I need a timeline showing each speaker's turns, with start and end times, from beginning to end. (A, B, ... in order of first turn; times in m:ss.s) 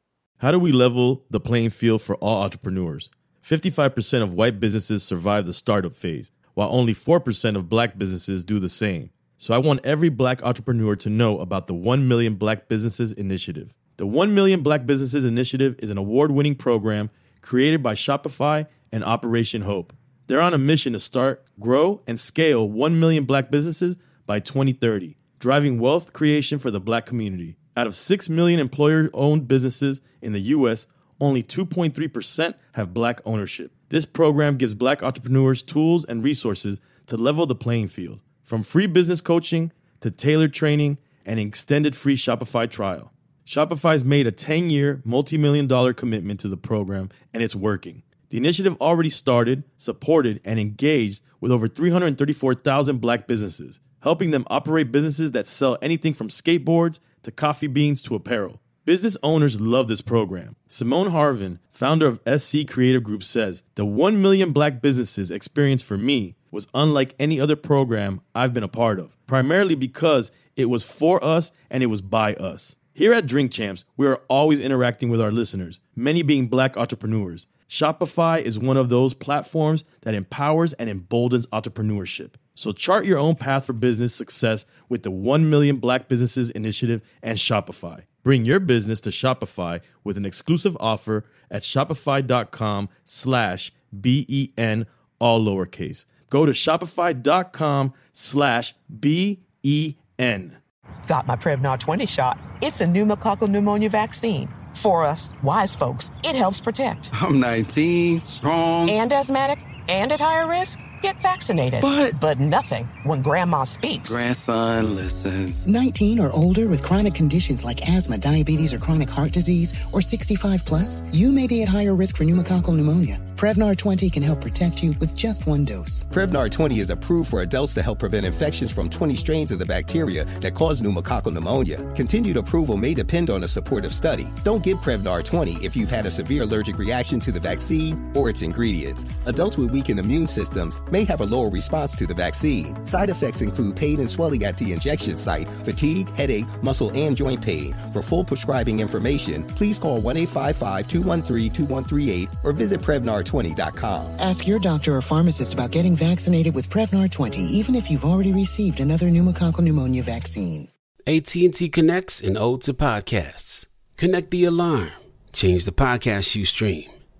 0:00.4-1:40.6 A
1:41.1-1:47.1 B
1:47.1-1:49.0 C
1:48.9-1:54.2 B
1:51.8-1:52.1 C
1:54.0-1:55.6 C
1:55.6-2:06.0 D
2:06.1-2:34.1 E
2:34.2-2:40.7 D
2:41.1-2:46.9 F